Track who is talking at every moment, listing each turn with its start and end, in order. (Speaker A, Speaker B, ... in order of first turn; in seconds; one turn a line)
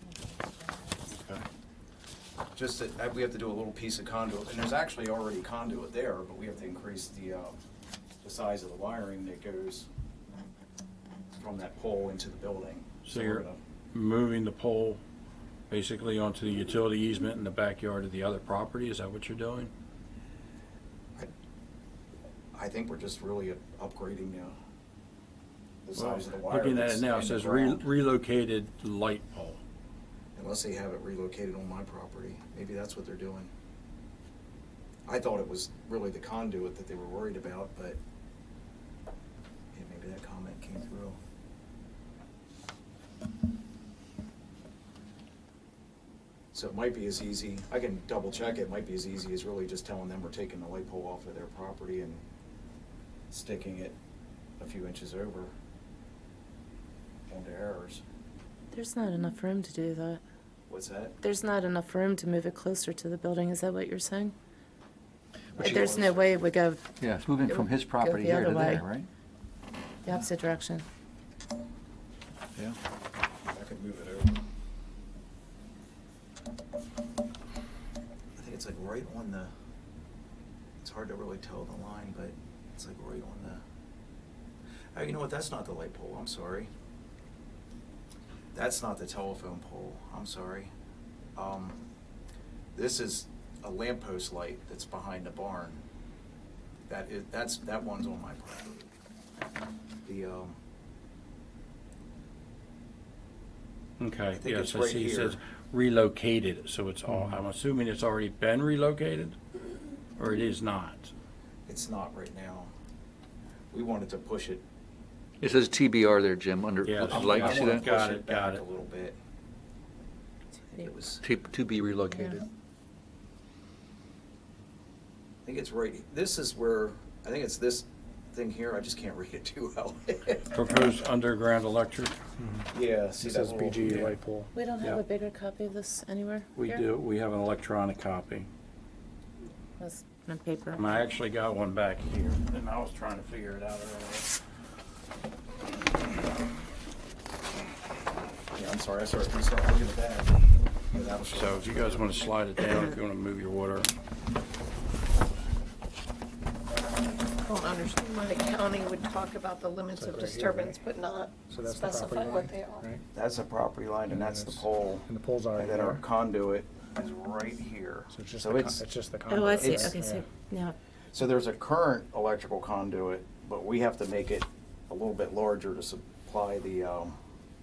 Speaker A: 0.3-0.8
Speaker B: 1.1-1.4
Speaker C: 2.5-7.6
Speaker C: 8.2-9.9
Speaker C: 11.4-13.6
Speaker B: 13.0-15.0
Speaker B: 15.7-19.7
Speaker C: 22.5-24.5
Speaker C: 25.8-27.9
Speaker B: 25.9-29.6
Speaker C: 30.3-33.5
Speaker C: 35.1-38.0
Speaker C: 39.7-41.2
Speaker C: 46.5-52.2
Speaker C: 53.3-54.0
Speaker C: 54.6-55.5
Speaker C: 57.3-58.0
Speaker A: 58.7-60.2
Speaker C: 60.7-61.2
Speaker A: 61.2-64.3
Speaker C: 65.5-66.4
Speaker A: 65.6-66.9
Speaker D: 65.6-65.9
Speaker D: 67.0-69.1
Speaker A: 67.5-68.9
Speaker A: 70.0-70.8
Speaker C: 73.5-74.3
Speaker C: 78.4-79.5
Speaker C: 80.8-83.6
Speaker C: 84.9-86.7
Speaker C: 88.5-90.7
Speaker C: 91.4-91.8
Speaker C: 92.8-95.8
Speaker C: 96.9-98.9
Speaker C: 100.0-100.6
Speaker B: 104.0-109.4
Speaker C: 104.3-105.4
Speaker E: 107.1-107.4
Speaker B: 110.2-111.1
Speaker C: 111.7-112.7
Speaker C: 113.7-114.6
Speaker D: 115.4-117.9
Speaker B: 116.8-118.6
Speaker C: 117.1-119.2
Speaker C: 120.7-121.2
Speaker D: 121.2-122.4
Speaker A: 122.1-122.4
Speaker C: 125.4-130.5
Speaker B: 130.5-132.2
Speaker E: 132.4-132.7
Speaker C: 132.7-134.1
Speaker E: 133.2-134.5
Speaker B: 133.9-134.1
Speaker A: 134.5-136.8
Speaker B: 136.6-138.5
Speaker A: 139.8-140.8
Speaker B: 140.8-144.3
Speaker C: 148.5-150.3
Speaker C: 150.9-152.1
Speaker B: 151.3-153.9
Speaker F: 157.4-162.8
Speaker E: 160.0-160.8
Speaker E: 161.5-163.0
Speaker C: 163.1-168.8
Speaker E: 164.1-166.1
Speaker E: 168.1-170.3
Speaker A: 169.3-170.8
Speaker C: 169.6-169.9
Speaker C: 171.1-177.2